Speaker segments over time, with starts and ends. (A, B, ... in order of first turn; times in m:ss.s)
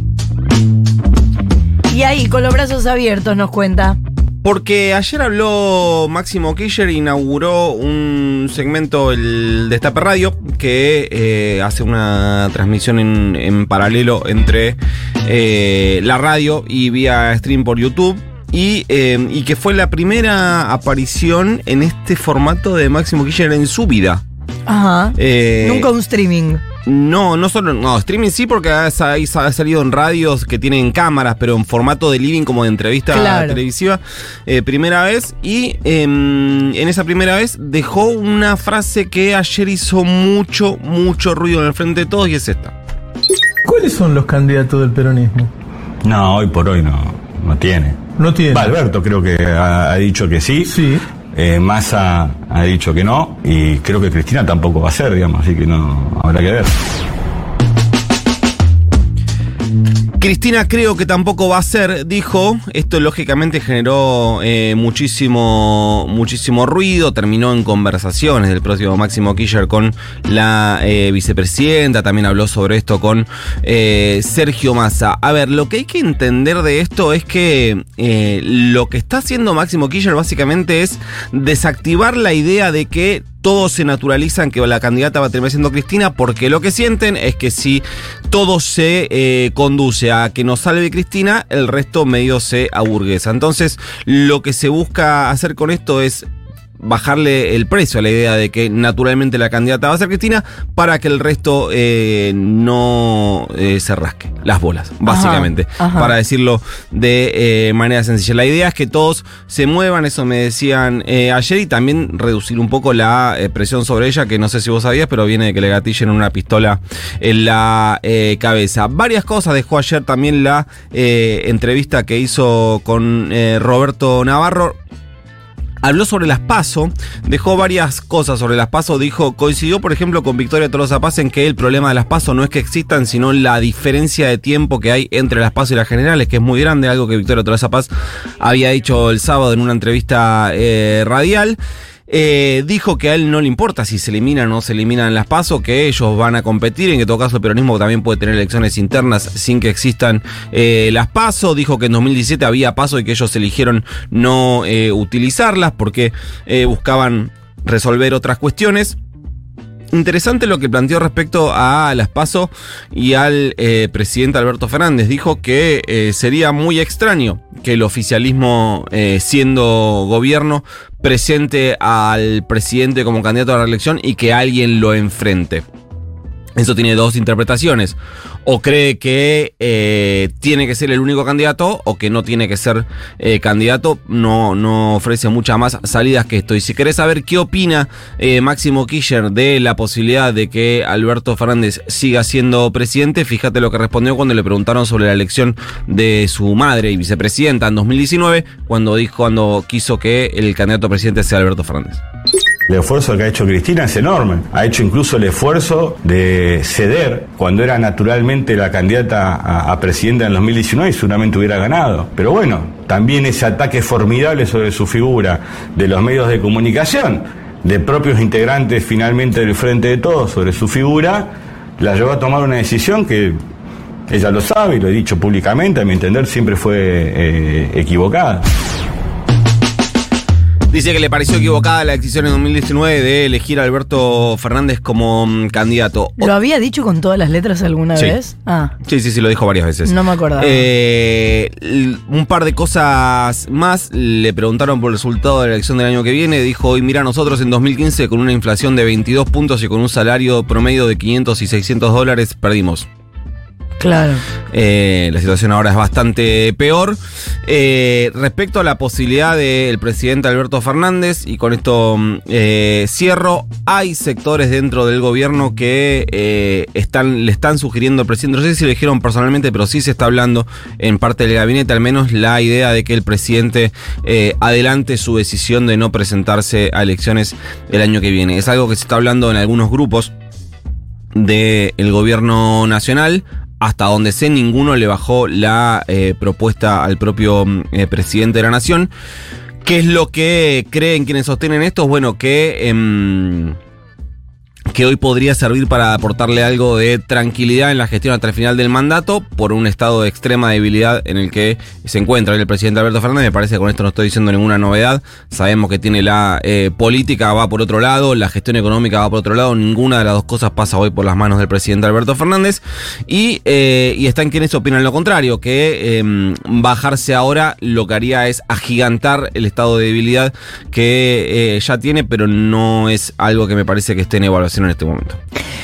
0:01.9-0:04.0 A
0:04.4-0:24.2 B
0:24.7-0:26.6 A
0:25.2-0:25.9 B
0:26.8-0:42.7 B
0:33.1-0:33.6 A
0:43.6-0:45.5 C
0:46.0-0:50.7 D
0:48.2-0:48.7 C
0:50.6-0:51.0 C
0:51.3-0:56.7 D
1:00.2-1:36.3 B
1:36.8-2:04.8 B
1:45.0-1:46.1 A
2:05.8-2:39.0 B
2:39.9-2:55.6 B
2:56.6-3:22.0 B
3:22.7-3:43.4 D
3:44.1-3:48.5 D
3:50.7-3:56.3 B
3:56.2-3:58.7 A
3:58.8-4:12.9 B
3:59.8-4:00.7 A
4:13.8-4:14.2 A
4:14.5-4:40.1 B
4:41.1-4:48.9 B
4:49.6-4:53.6 B
4:54.7-5:25.2 B